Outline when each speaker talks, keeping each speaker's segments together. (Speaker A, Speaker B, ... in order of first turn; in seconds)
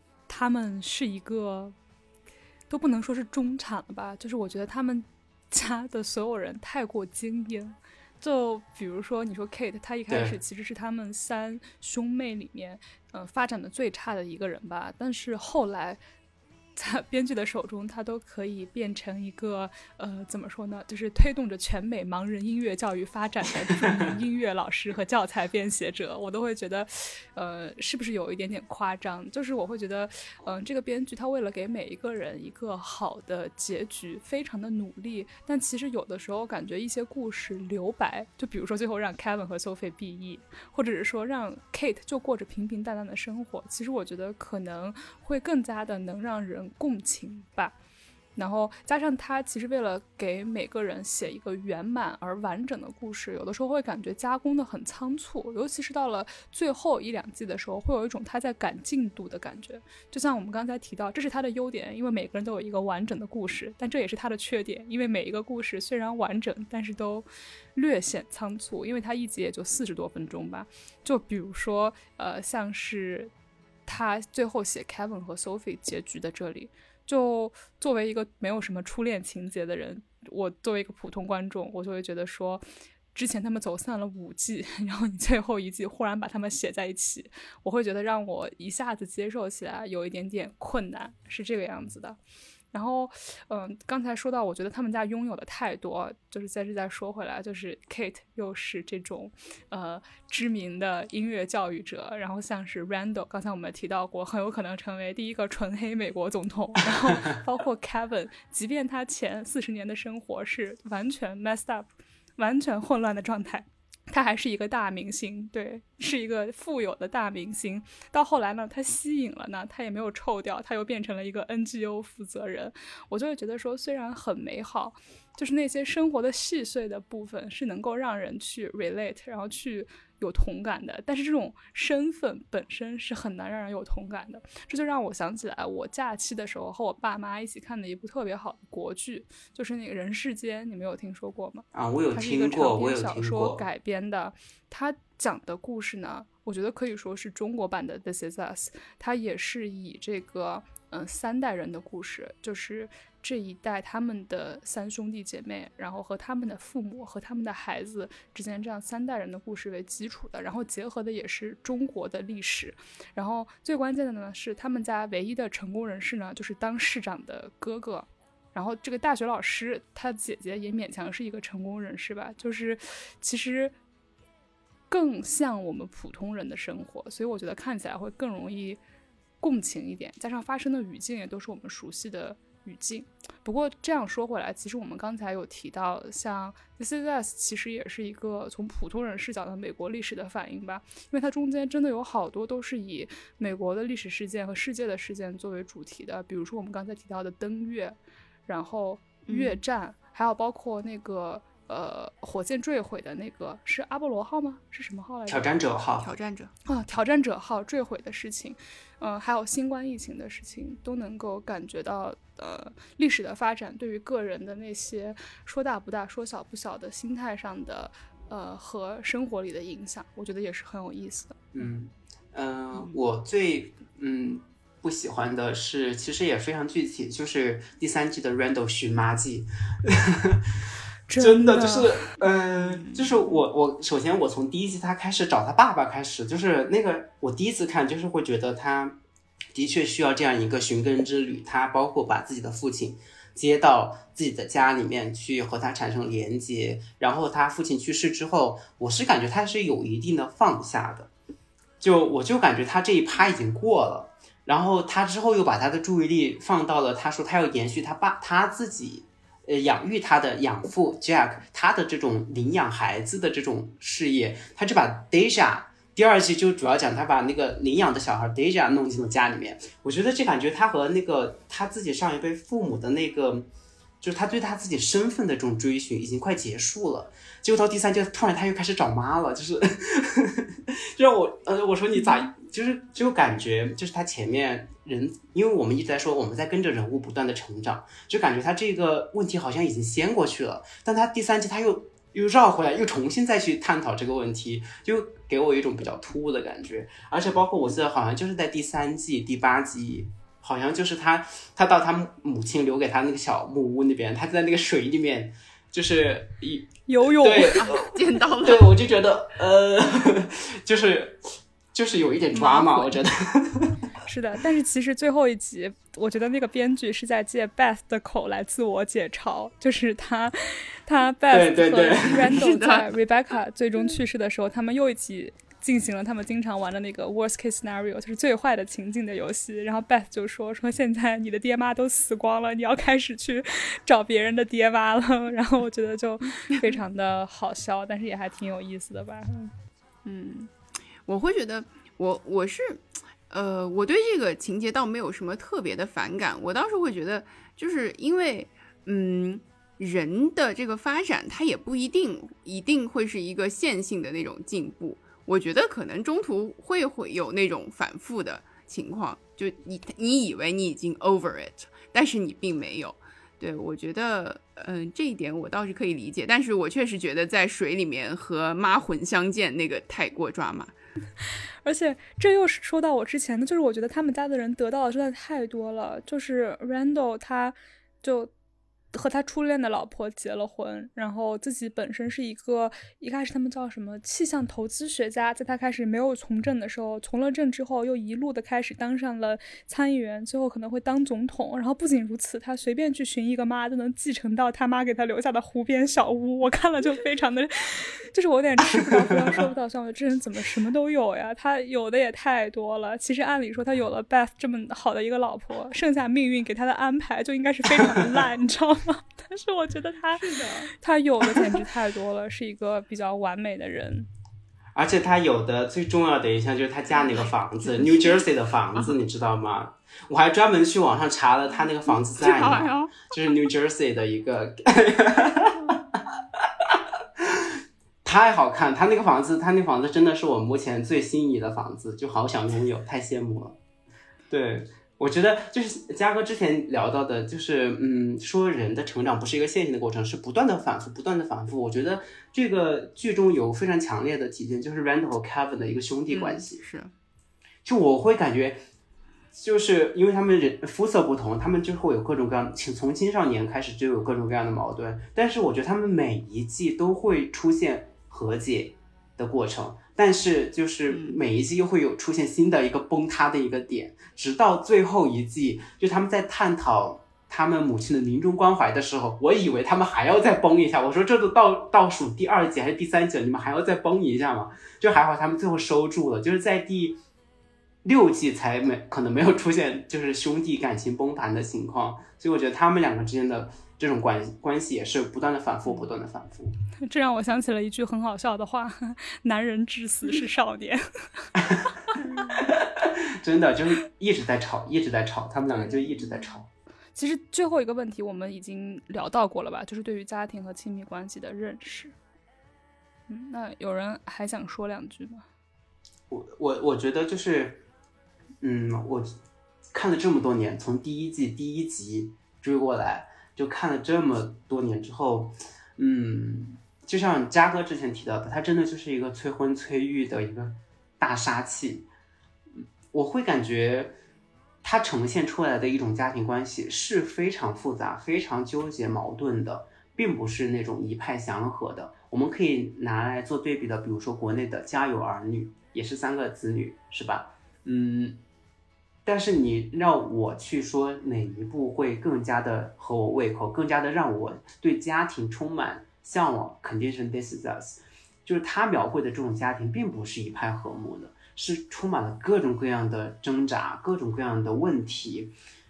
Speaker A: 0.3-1.8, 2.7-16.0, 16.8-47.7, 48.4-73.3, 73.9-92.2, 92.7-173.7, 174.9-178.8, 179.4-205.6, 206.7-221.5, 231.1-232.2, 306.9-307.9, 312.3-313.0, 314.1-339.5, 371.6-378.3, 378.9-414.1, 486.8-491.3, 491.9-492.2, 495.5-496.4, 496.9-501.9, 503.1-505.2
Speaker B: 10.1-10.3, 141.7-143.6, 205.3-206.1, 221.5-230.6, 231.2-239.0, 239.5-251.1, 251.8-273.5, 274.0-307.7, 308.4-313.8, 321.3-322.4, 414.7-427.5, 428.0-433.6, 434.3-446.6, 447.6-448.6, 449.3-477.0, 477.8-486.5, 491.4-496.5, 506.1-507.6, 508.4-509.1, 509.7-521.9, 522.5-524.0, 524.6-538.2, 539.0-555.3
Speaker C: 199.3-199.6, 206.0-206.5, 232.6-233.2, 307.5-308.7, 322.2-322.9, 340.0-340.5, 341.1-370.7, 421.9-422.9, 446.1-446.9, 460.9-461.2